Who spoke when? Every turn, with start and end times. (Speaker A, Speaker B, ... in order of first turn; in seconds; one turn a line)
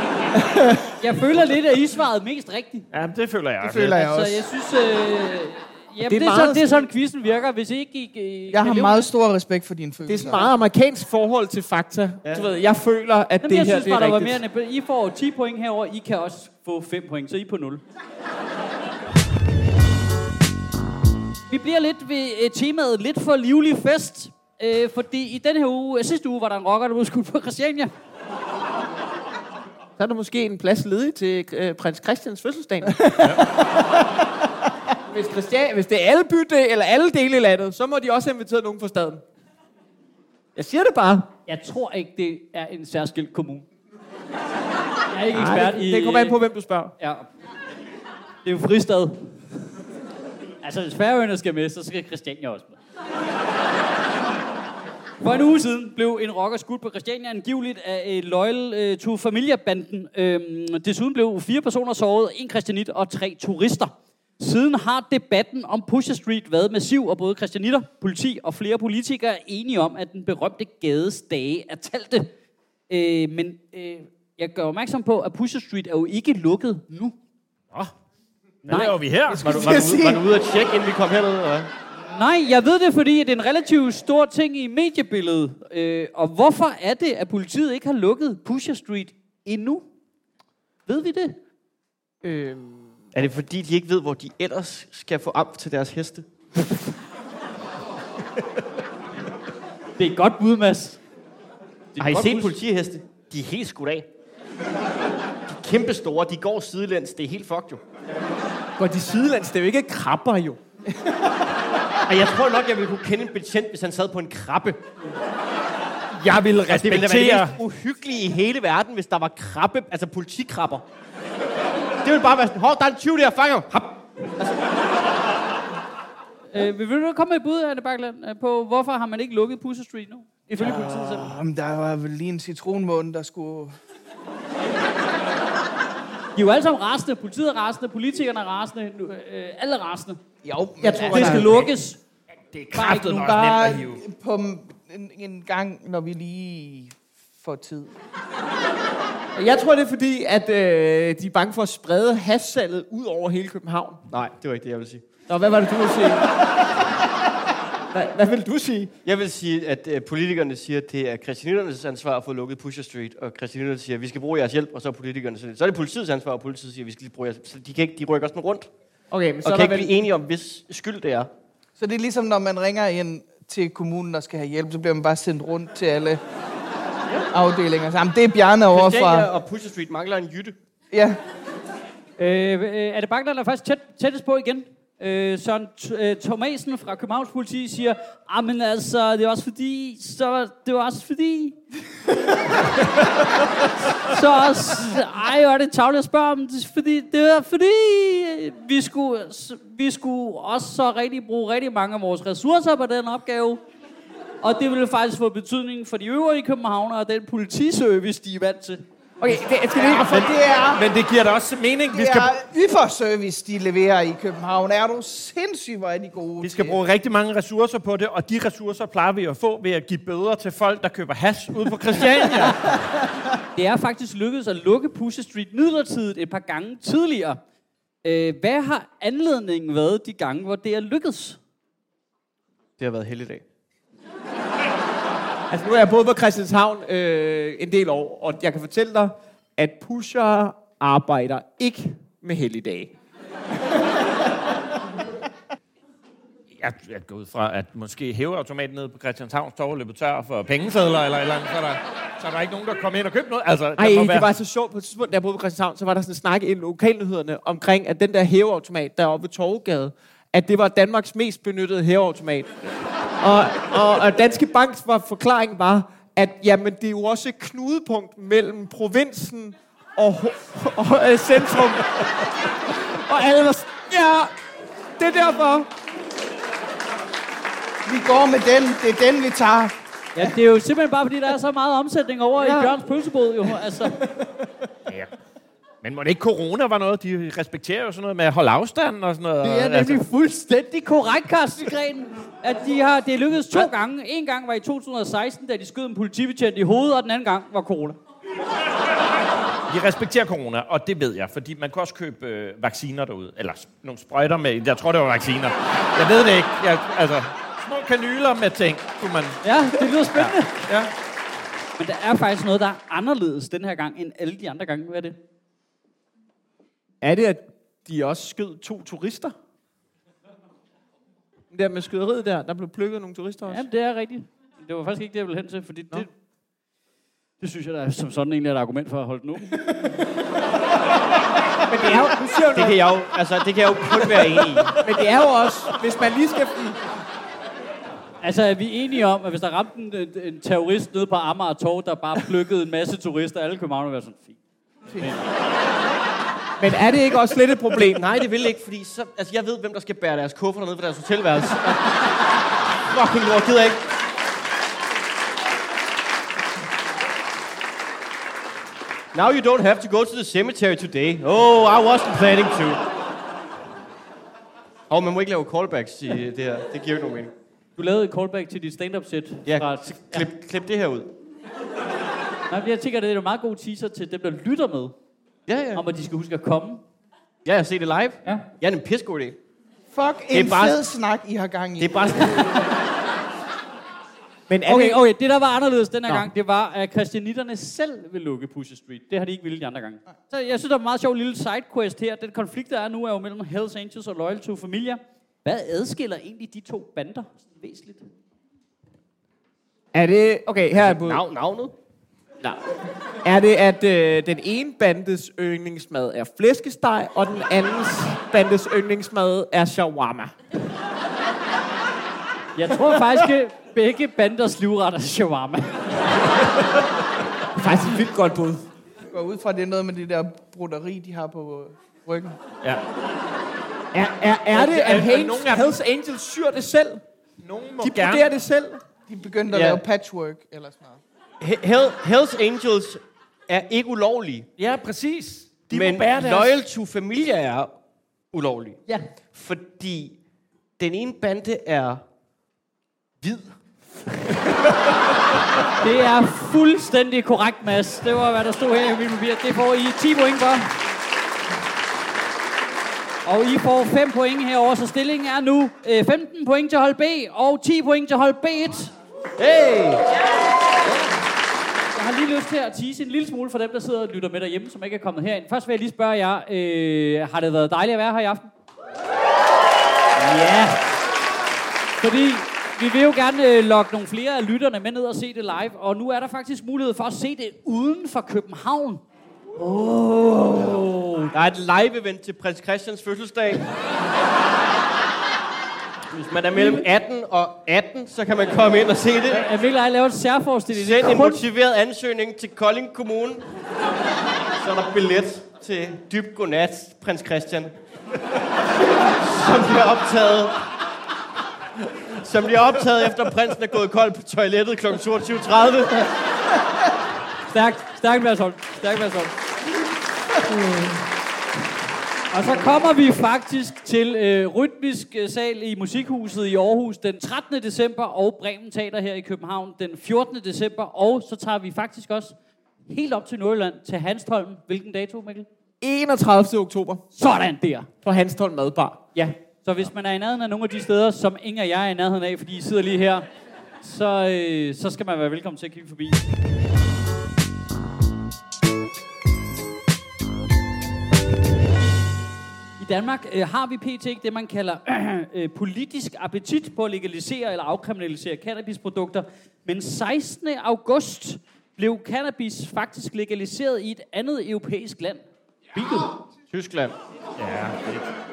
Speaker A: 0.5-0.8
Speaker B: 1.0-2.9
Speaker C: 2.9-4.1
Speaker A: 3.6-4.5
Speaker B: 3.9-9.1
Speaker D: 6.0-6.8
Speaker A: 8.5-10.5
Speaker D: 10.1-14.4
Speaker B: 13.4-17.8
Speaker B: 21.5-27.9
Speaker D: 30.0-33.2
Speaker A: 33.0-34.0
Speaker C: 33.2-33.5
Speaker D: 35.1-39.2
Speaker D: 40.5-41.3
Speaker B: 41.5-43.7
Speaker B: 45.1-46.4
Speaker D: 45.3-46.9
Speaker B: 47.0-47.3
Speaker B: 48.4-49.4
Speaker B: 50.6-52.7
Speaker B: 55.2-72.3
Speaker B: 72.9-77.2
Speaker C: 78.6-80.2
Speaker B: 78.7-79.0
Speaker A: 79.3-80.2
Speaker E: 79.4-81.7
Speaker B: 82.1-89.8
Speaker B: 90.9-91.4
Speaker D: 92.2-92.9
Speaker E: 93.1-96.2
Speaker B: 100.0-101.0
Speaker B: 101.9-102.5
Speaker E: 102.0-104.1
Speaker E: 105.5-107.8
Speaker D: 108.8-110.6
Speaker A: 110.9-111.4
Speaker E: 112.0-114.8
Speaker C: 116.2-117.6
Speaker E: 116.7-120.8
Speaker E: 122.0-124.5
Speaker B: 126.5-131.3
Speaker A: 130.6-133.7
Speaker B: 136.3-140.2
Speaker A: 140.4-141.5
Speaker D: 140.8-141.6
Speaker B: 140.9-142.0
Speaker C: 141.2-141.7
Speaker C: 142.5-144.0
Speaker B: 142.7-143.3
Speaker A: 142.8-147.9
Speaker D: 149.3-154.0
Speaker E: 154.1-155.0
Speaker D: 155.3-156.2
Speaker D: 157.9-158.9
Speaker E: 159.0-168.7
Speaker D: 169.1-169.9
Speaker E: 169.4-171.3
Speaker A: 171.8-176.2
Speaker A: 177.3-179.3
Speaker E: 178.7-180.5
Speaker A: 180.9-181.2
Speaker B: 182.2-191.6
Speaker B: 194.0-203.6
Speaker B: 204.4-208.8
Speaker D: 209.2-210.3
Speaker A: 209.7-210.8
Speaker C: 210.0-212.4
Speaker A: 211.9-216.8
Speaker C: 216.4-222.8
Speaker B: 221.9-222.6
Speaker B: 223.5-227.4
Speaker B: 228.0-231.4
Speaker E: 232.8-233.4
Speaker D: 235.5-242.9
Speaker C: 246.6-254.3
Speaker D: 253.8-262.5
Speaker D: 263.2-272.0
Speaker D: 272.7-274.3
Speaker D: 275.0-275.7
Speaker A: 277.9-279.7
Speaker B: 280.1-283.9
Speaker D: 282.4-282.7
Speaker C: 285.8-290.0
Speaker B: 289.4-298.0
Speaker C: 299.7-309.4
Speaker B: 309.4-310.6
Speaker C: 310.1-310.9
Speaker B: 311.8-315.2
Speaker D: 317.0-319.3
Speaker D: 321.5-323.6
Speaker B: 323.5-326.1
Speaker B: 327.4-329.6
Speaker D: 331.7-332.8
Speaker E: 332.5-334.8
Speaker D: 334.1-336.8
Speaker B: 338.2-344.4
Speaker D: 346.6-348.1
Speaker E: 347.7-351.8
Speaker E: 352.9-353.8
Speaker E: 359.1-362.8
Speaker E: 364.9-367.3
Speaker B: 367.8-370.3
Speaker E: 369.4-371.1
Speaker B: 372.5-374.9
Speaker E: 375.5-375.8
Speaker B: 375.7-376.8
Speaker E: 377.4-379.4
Speaker A: 379.9-382.1
Speaker E: 380.3-380.8
Speaker E: 381.8-382.5
Speaker D: 384.5-385.0
Speaker B: 384.6-398.1
Speaker D: 399.9-401.2
Speaker E: 400.8-401.7
Speaker D: 403.2-410.3
Speaker B: 412.6-416.0
Speaker D: 417.6-418.6
Speaker A: 419.1-422.4
Speaker D: 423.9-427.0
Speaker C: 424.5-425.8
Speaker C: 427.4-428.3
Speaker D: 427.8-428.8
Speaker A: 429.1-431.0
Speaker E: 429.5-429.8
Speaker E: 431.4-434.5
Speaker C: 434.6-436.5
Speaker E: 435.7-437.7
Speaker E: 438.3-438.8
Speaker E: 439.3-440.2
Speaker E: 440.8-442.0
Speaker E: 443.2-443.5
Speaker B: 445.8-450.7
Speaker B: 453.2-458.9
Speaker E: 459.4-460.0
Speaker B: 461.9-468.5
Speaker B: 470.2-470.9
Speaker B: 472.0-479.0
Speaker B: 480.2-481.3
Speaker E: 481.3-483.6
Speaker E: 486.1-489.4
Speaker B: 486.5-486.8
Speaker B: 489.3-491.4
Speaker E: 490.7-493.4
Speaker E: 494.6-497.7
Speaker E: 499.2-500.6
Speaker E: 502.2-506.1
Speaker B: 507.5-509.3
Speaker B: 512.3-522.3
Speaker B: 522.9-525.5
Speaker D: 525.8-527.0
Speaker B: 527.1-527.9
Speaker D: 528.0-529.0
Speaker B: 529.1-533.2
Speaker B: 533.8-536.2
Speaker B: 542.8-556.1
Speaker E: 556.5-556.9
Speaker C: 557.4-558.1